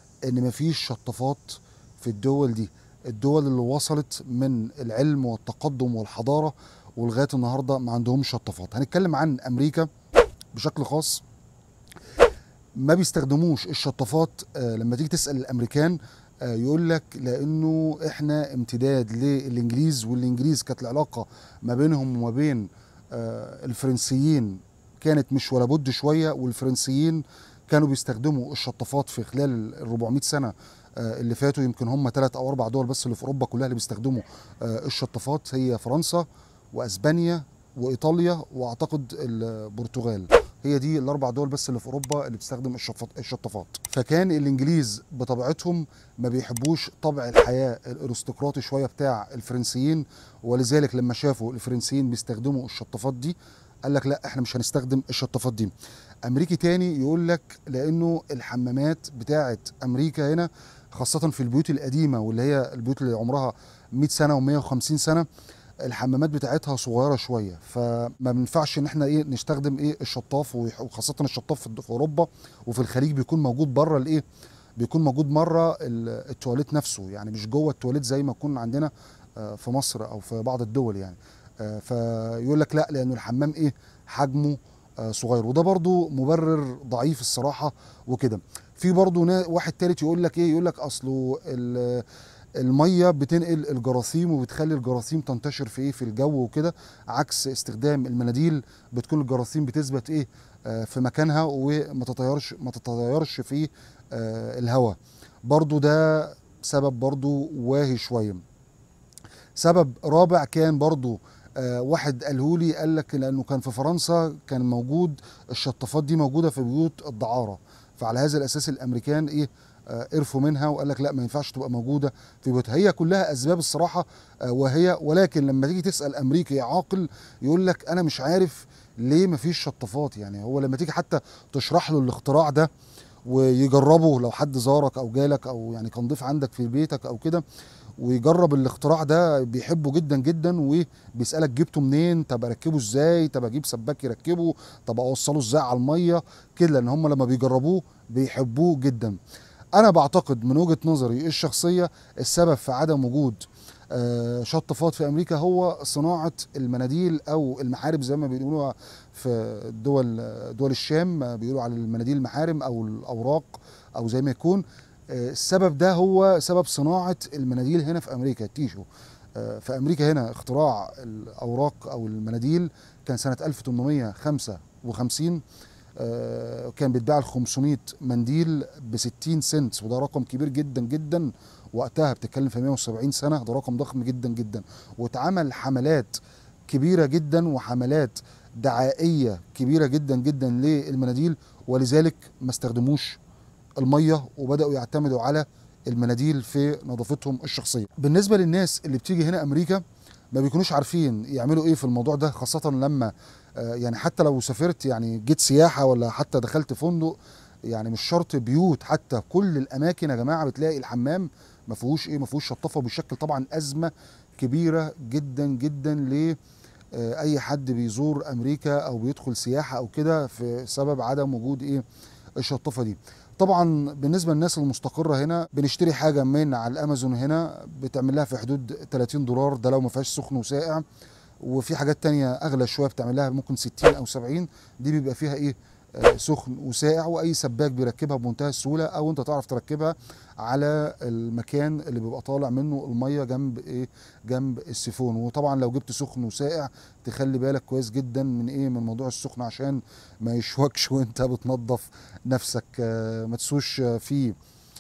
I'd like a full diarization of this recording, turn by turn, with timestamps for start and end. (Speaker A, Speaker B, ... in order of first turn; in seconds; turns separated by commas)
Speaker A: 0.2-9.9, Speaker A: 10.5-11.2, Speaker A: 12.8-55.7, Speaker A: 56.2-65.3, Speaker A: 65.8-74.2, Speaker A: 74.8-108.4, Speaker A: 109.5-132.7, Speaker A: 133.2-137.4, Speaker A: 138.0-149.2, Speaker A: 149.7-175.4, Speaker A: 176.0-186.2, Speaker A: 186.7-193.2, Speaker A: 193.8-216.4, Speaker A: 216.9-221.8, Speaker A: 222.4-230.8, Speaker A: 231.4-254.3